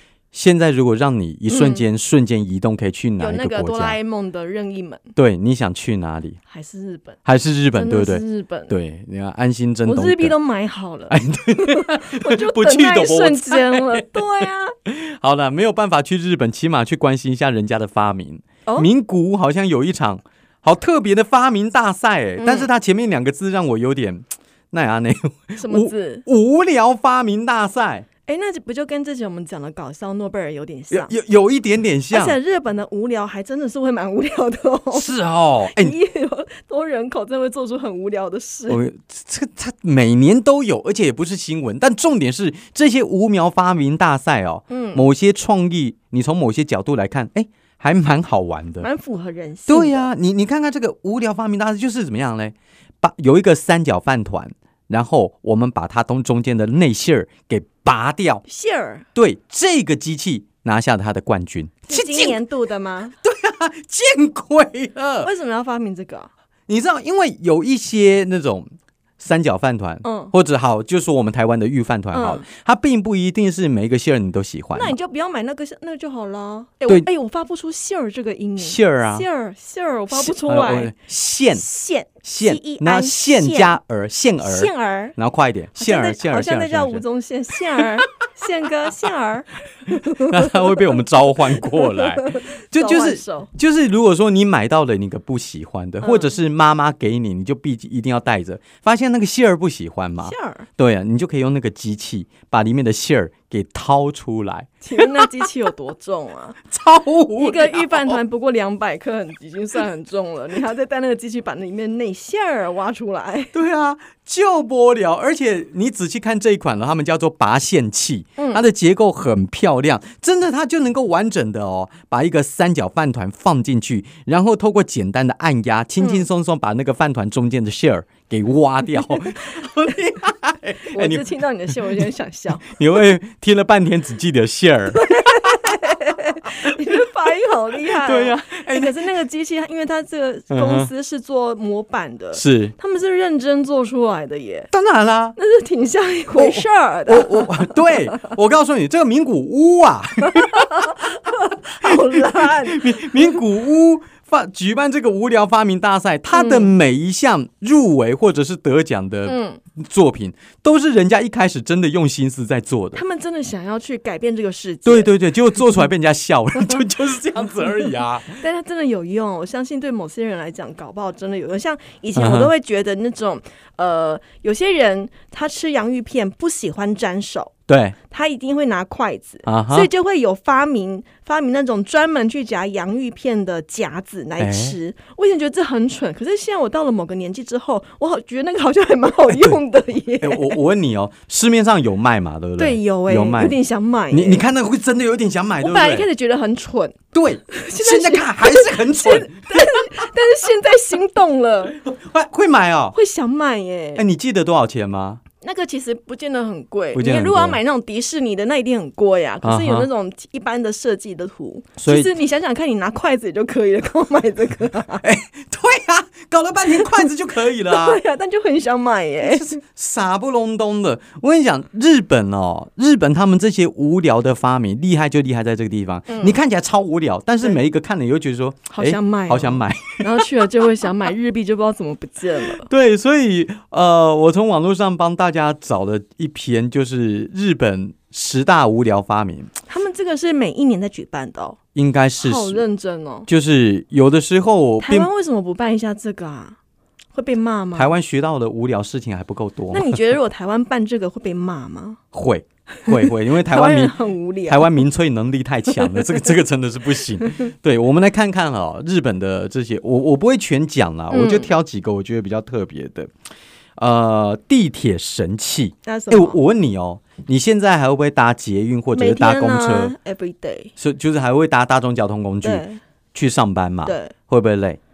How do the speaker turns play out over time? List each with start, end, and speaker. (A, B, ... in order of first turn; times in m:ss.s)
0:00.3-0:04.0 A
0:01.5-0:01.8 B
0:03.2-0:05.1 B
0:05.1-0:06.4 A
0:06.5-0:07.2 B
0:07.2-0:10.3 A
0:07.7-0:08.7 B
0:09.8-0:14.7 B
0:11.1-0:14.2 A
0:14.8-0:28.0 A
0:22.4-0:22.7 B
0:25.6-0:26.2 B
0:28.3-0:31.1 B
0:30.9-0:32.4 A
0:32.1-0:38.8 B
0:34.9-0:36.0 A
0:38.7-0:48.9 A
0:44.7-0:45.0 B
0:48.8-0:50.1 B
0:49.7-0:58.4 A
0:58.4-0:59.0 B
0:59.1-1:02.4 A
1:01.9-1:03.1 B
1:03.2-1:05.3 A
1:05.2-1:06.3 B
1:06.7-1:08.6 A
1:09.2-1:14.9 A
1:10.0-1:10.3 B
1:12.1-1:12.4 B
1:14.7-1:20.9 B
1:18.6-1:19.2 A
1:20.1-1:21.6 A
1:21.5-1:23.8 B
1:22.2-1:27.0 A
1:24.4-1:25.1 B
1:25.8-1:30.9 B
1:29.9-1:45.3 A
1:31.6-1:33.5 B
1:36.0-1:36.3 B
1:40.2-1:40.6 B
1:44.8-1:46.6 B
1:46.7-1:48.2 A
1:47.4-1:53.5 B
1:53.5-2:12.0 A
1:58.4-1:58.6 B
2:06.0-2:06.2 B
2:10.9-2:12.8 B
2:12.6-2:15.9 A
2:14.9-2:24.7 B
2:18.0-2:19.0 A
2:20.5-2:20.9 A
2:22.3-2:22.7 A
2:24.7-2:25.4 A
2:25.4-2:28.0 B
2:26.4-2:43.0 A
2:30.3-2:33.3 B
2:36.3-2:36.7 B
2:39.3-2:39.6 B
2:42.9-2:45.1 B
2:44.8-2:48.4 A
2:48.4-2:57.5 B
2:52.2-2:52.5 A
2:57.7-2:58.0 A
2:58.1-3:10.6 B
2:59.4-2:59.9 A
3:04.4-3:04.8 A
3:09.3-3:09.6 A
3:10.2-3:13.6 A
3:12.6-3:14.4 B
3:14.1-3:16.1 A
3:15.6-3:21.8 B
3:17.1-3:19.9 A
3:21.8-3:23.0 A
3:22.9-3:24.0 B
3:23.9-3:25.2 A
3:25.4-3:35.0 B
3:26.9-3:27.6 A
3:29.4-3:29.9 A
3:31.8-3:32.1 A
3:35.0-3:38.0 A
3:36.7-3:37.1 B
3:37.6-3:39.6 B
3:39.2-3:50.2 A
3:46.1-3:46.4 B
3:48.7-3:52.7 B
3:52.6-3:59.5 A
3:59.7-4:01.6 B
4:01.7-4:02.6 A
4:02.2-4:03.3 B
4:03.3-4:05.1 A
4:04.8-4:06.6 B
4:07.1-4:07.9 B
4:07.7-4:10.0 A
4:09.7-4:12.0 B
4:12.1-4:13.9 A
4:12.8-4:14.8 B
4:14.5-4:23.1 A
4:15.7-4:16.3 B
4:21.1-4:21.5 B
4:23.8-4:29.9 A
4:25.8-4:26.4 B
4:28.9-4:30.7 B
4:30.8-4:34.8 A
4:32.4-4:32.8 B
4:33.8-4:34.1 B